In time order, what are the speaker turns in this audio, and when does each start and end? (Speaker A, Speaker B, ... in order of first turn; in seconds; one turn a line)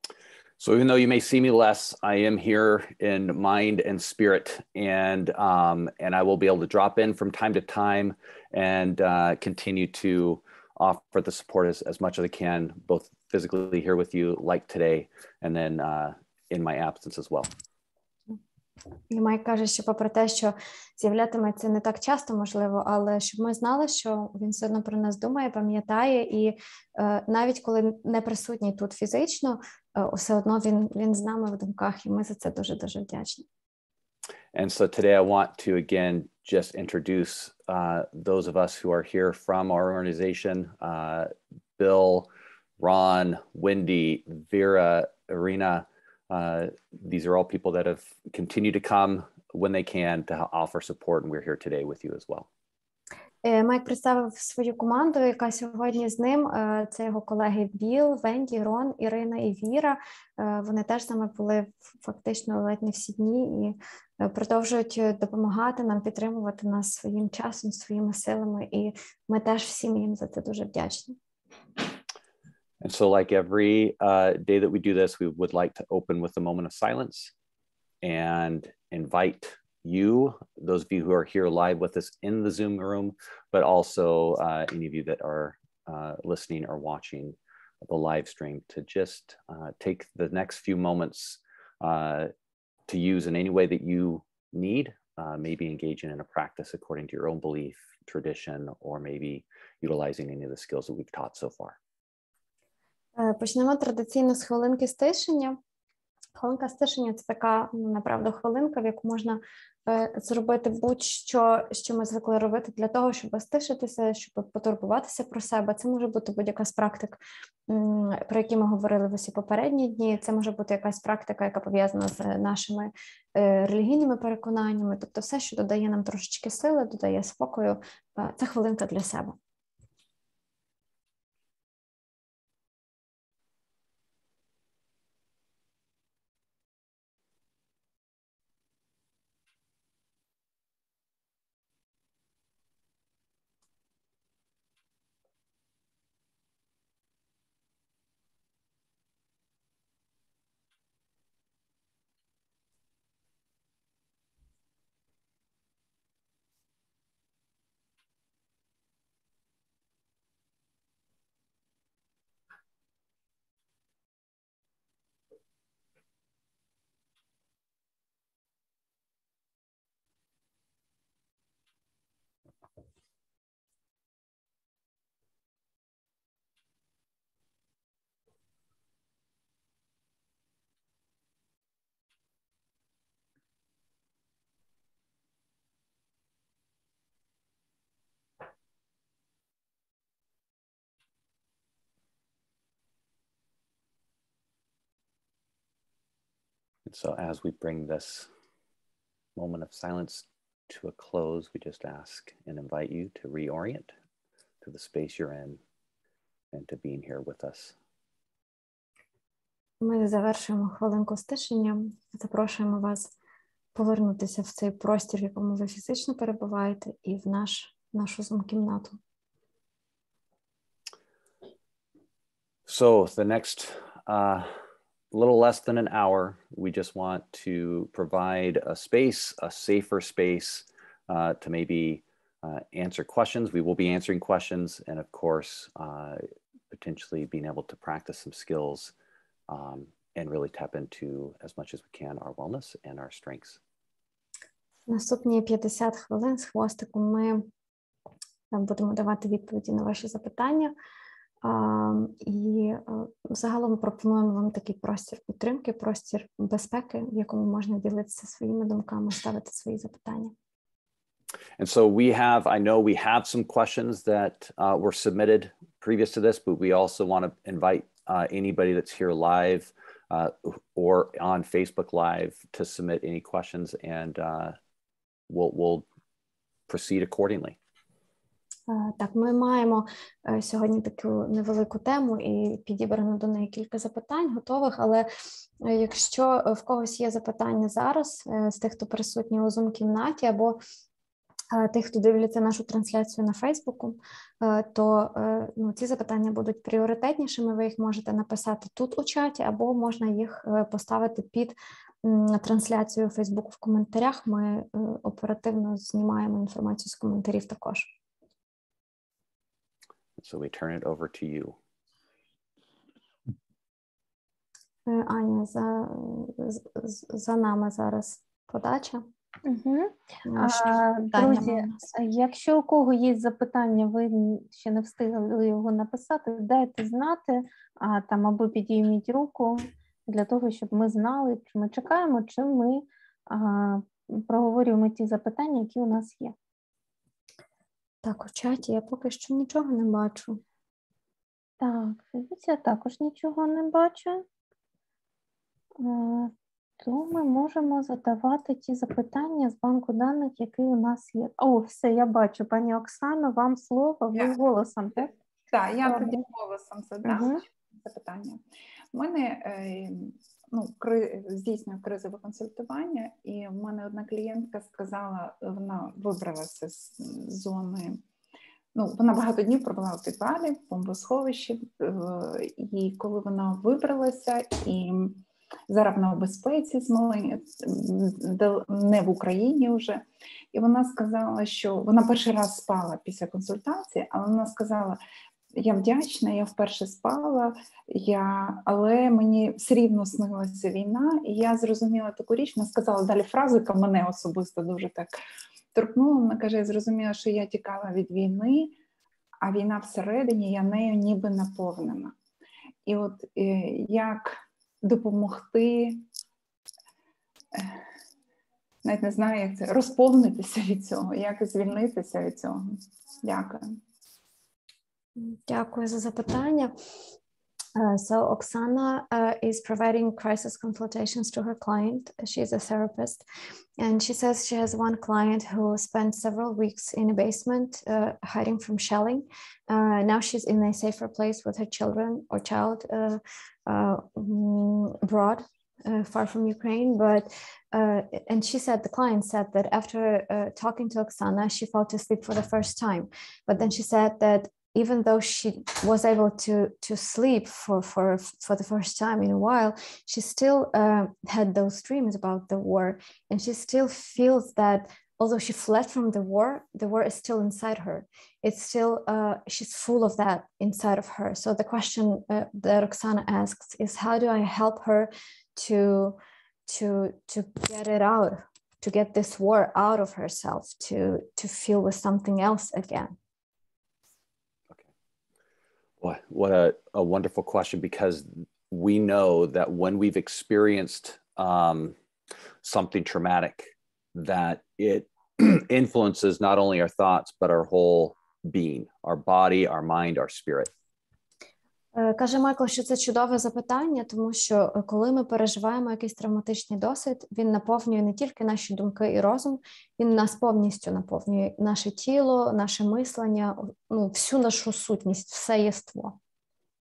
Speaker A: 0.6-17.5
Speaker B: 19.1-33.4
Speaker A: 34.5-42.3
Speaker A: 42.8-52.5
Speaker B: 53.4-71.2
Speaker A: 72.8-77.3
Speaker A: 78.0-92.3
Speaker A: 92.9-101.8
Speaker B: 103.2-105.6
Speaker B: 106.4-129.4
Speaker A: 196.8-198.3
Speaker A: 199.3-203.9
Speaker A: 204.6-205.6
Speaker A: 206.5-207.7
Speaker B: 209.8-213.1
Speaker B: 213.7-219.0
Speaker A: 222.7-224.5
Speaker A: 225.1-238.9
Speaker A: 239.5-243.6
Speaker B: 244.9-247.5
Speaker B: 248.5-250.7
Speaker B: 251.4-260.3
Speaker A: 261.6-274.6
Speaker A: 275.3-275.9
Speaker A: 276.7-277.6
Speaker B: 278.7-285.1
Speaker B: 285.6-290.6
Speaker B: 291.5-307.9
Speaker A: 310.2-311.6
Speaker B: 314.9-319.1
Speaker C: 319.4-336.4
Speaker B: 320.2-321.8
Speaker B: 338.0-340.4
Speaker C: 341.6-344.2
Speaker C: 345.8-355.1
Speaker D: 355.5-368.0
Speaker C: 355.8-356.2
Speaker C: 357.1-357.4
Speaker D: 368.7-385.0
Speaker D: 385.6-395.1
Speaker D: 395.7-398.8
Speaker D: 399.4-402.2
Speaker D: 402.9-406.1
Speaker D: 407.6-407.8
Speaker D: 408.8-413.8
Speaker B: 415.1-416.7
Speaker B: 417.8-423.2
Speaker B: 423.8-473.1
Speaker A: 476.0-482.0
Speaker A: 482.6-490.7
Speaker B: 491.9-506.2